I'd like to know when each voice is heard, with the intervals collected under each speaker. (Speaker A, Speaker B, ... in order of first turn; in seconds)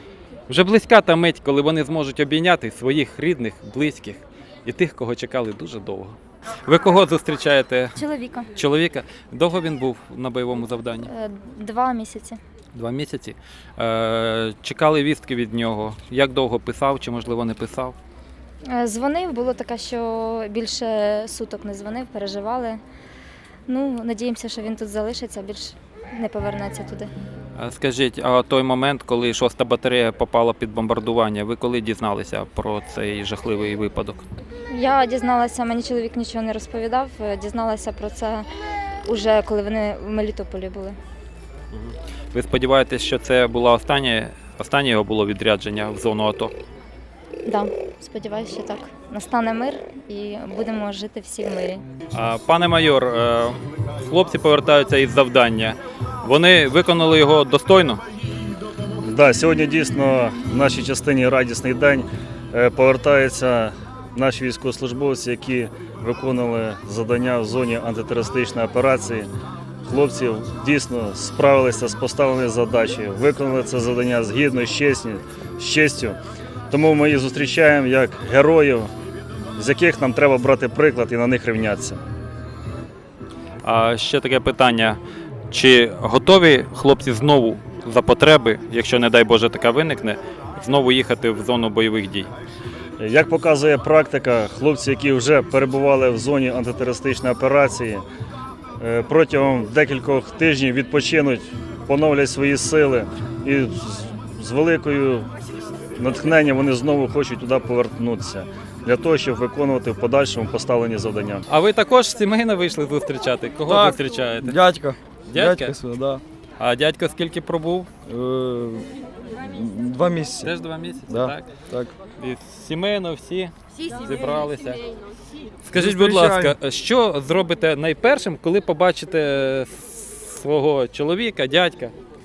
Speaker A: 0.5-8.0, 8.5-11.1, 12.7-17.9, 27.6-34.2, 41.7-46.5, 52.1-58.0, 83.6-85.0, 85.5-92.3, 111.5-114.6, 115.3-115.7, 116.6-117.9, 120.4-121.5, 122.2-124.8, 125.7-131.9
Speaker B: 7.9-8.5, 11.1-12.4, 18.6-22.8, 23.7-27.1, 34.7-38.5, 39.0-41.0, 47.4-51.8
Speaker C: 59.0-69.3, 69.8-76.2, 76.7-78.9, 79.6-82.0, 93.0-98.0, 98.8-105.3, 106.0-111.4
Speaker D: 113.7-116.2, 118.0-118.9, 119.4-120.5, 121.1-121.9, 125.7-126.6